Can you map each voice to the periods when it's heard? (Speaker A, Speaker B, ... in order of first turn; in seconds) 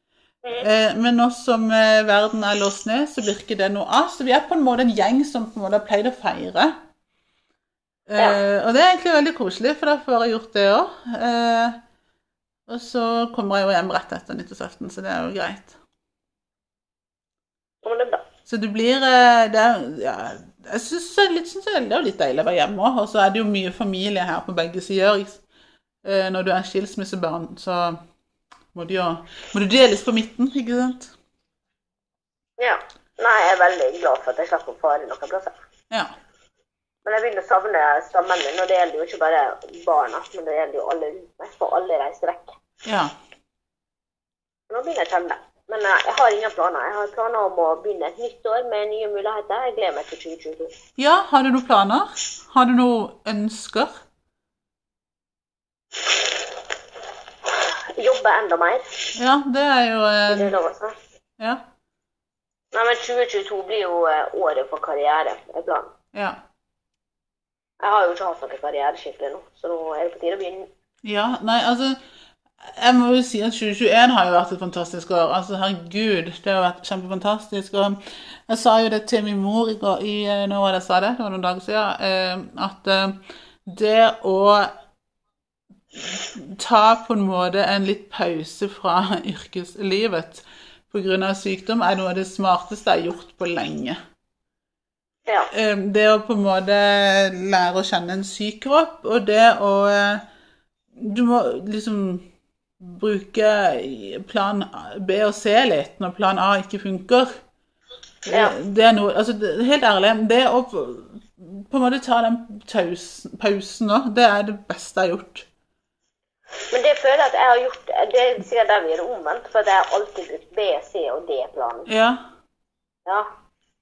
Speaker A: 0.5-6.7, 8.1-11.8, 12.7-15.7, 18.4-25.4, 26.0-28.0, 28.7-31.1, 42.9-43.1, 51.0-54.0, 59.1-60.5, 71.0-72.0, 72.6-84.7, 85.9-94.0, 95.5-100.2, 101.0-102.2, 102.8-107.3, 108.3-115.5, 121.9-122.2
Speaker B: 17.8-18.2, 32.6-35.5, 37.0-42.5, 44.7-50.7, 57.5-58.9, 60.3-61.0, 62.7-65.9, 67.8-70.7, 108.3-108.5, 116.7-121.9